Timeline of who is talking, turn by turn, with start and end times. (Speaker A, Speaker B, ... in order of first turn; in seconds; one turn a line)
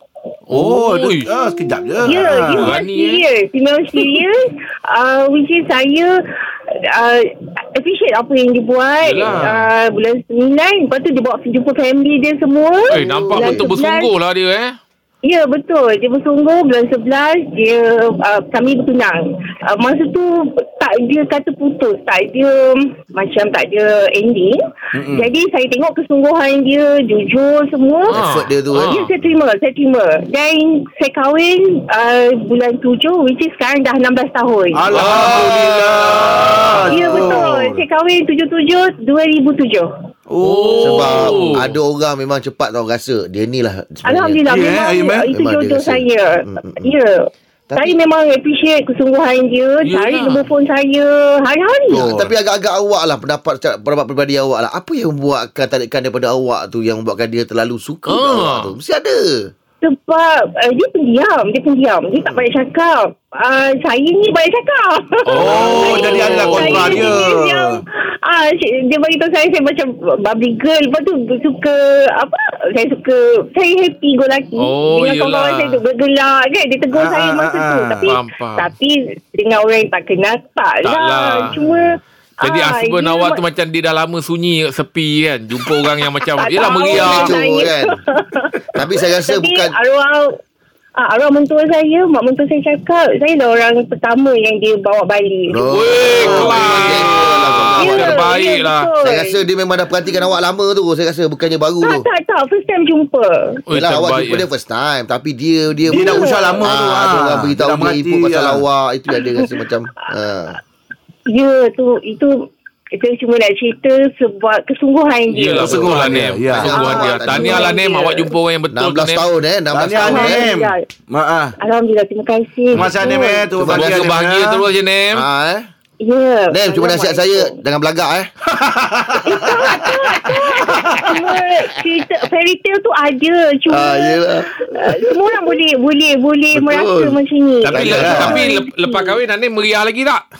Speaker A: 0.5-1.3
Speaker B: 0.5-2.8
Speaker C: 1.3-14.1
Speaker A: 2.6-3.2
Speaker A: 9.0-9.7
Speaker A: 12.9-14.8
Speaker D: 12.9-13.6
Speaker C: 15.2-28.2
Speaker B: 24.9-25.3
Speaker D: 28.1-28.9
Speaker A: 28.1-29.1
Speaker C: 28.8-35.4
Speaker B: 34.7-37.8
Speaker A: 34.9-37.3
Speaker C: 36.9-39.9
Speaker B: 40.3-41.6
Speaker A: 40.4-41.7
Speaker D: 40.8-44.4
Speaker C: 44.0-52.1
Speaker B: 44.5-45.3
Speaker D: 45.3-46.9
Speaker D: 47.7-48.0
Speaker A: 49.8-50.5
Speaker D: 51.9-59.5
Speaker B: 52.0-52.3
Speaker A: 58.1-58.7
Speaker C: 59.8-83.4
Speaker A: 65.3-67.1
Speaker B: 65.3-67.8
Speaker A: 74.6-75.8
Speaker B: 76.9-78.1
Speaker A: 78.0-78.7
Speaker A: 80.8-81.6
Speaker A: 82.4-87.4
Speaker C: 85.7-90.4
Speaker D: 86.9-88.0
Speaker D: 88.7-89.7
Speaker C: 91.0-96.7
Speaker D: 95.5-98.2
Speaker A: 95.7-98.9
Speaker B: 96.3-96.9
Speaker C: 97.7-99.4
Speaker D: 99.0-102.0
Speaker C: 101.8-103.6
Speaker A: 103.7-104.4
Speaker D: 103.7-110.6
Speaker B: 105.9-108.6
Speaker C: 105.9-106.8
Speaker C: 109.1-109.6
Speaker C: 111.3-118.3
Speaker A: 115.3-119.2
Speaker B: 115.6-116.8
Speaker D: 116.5-117.7
Speaker D: 118.7-120.5
Speaker B: 119.7-121.5
Speaker C: 120.0-120.8
Speaker C: 121.6-123.6
Speaker B: 122.7-124.6
Speaker D: 123.5-124.1
Speaker A: 123.7-125.2
Speaker D: 125.1-125.7
Speaker C: 126.0-127.6
Speaker D: 126.5-128.3
Speaker B: 128.5-129.4
Speaker C: 129.2-139.2
Speaker D: 133.7-134.5
Speaker D: 136.5-137.2
Speaker A: 137.6-140.2
Speaker D: 137.7-138.4
Speaker B: 137.8-138.3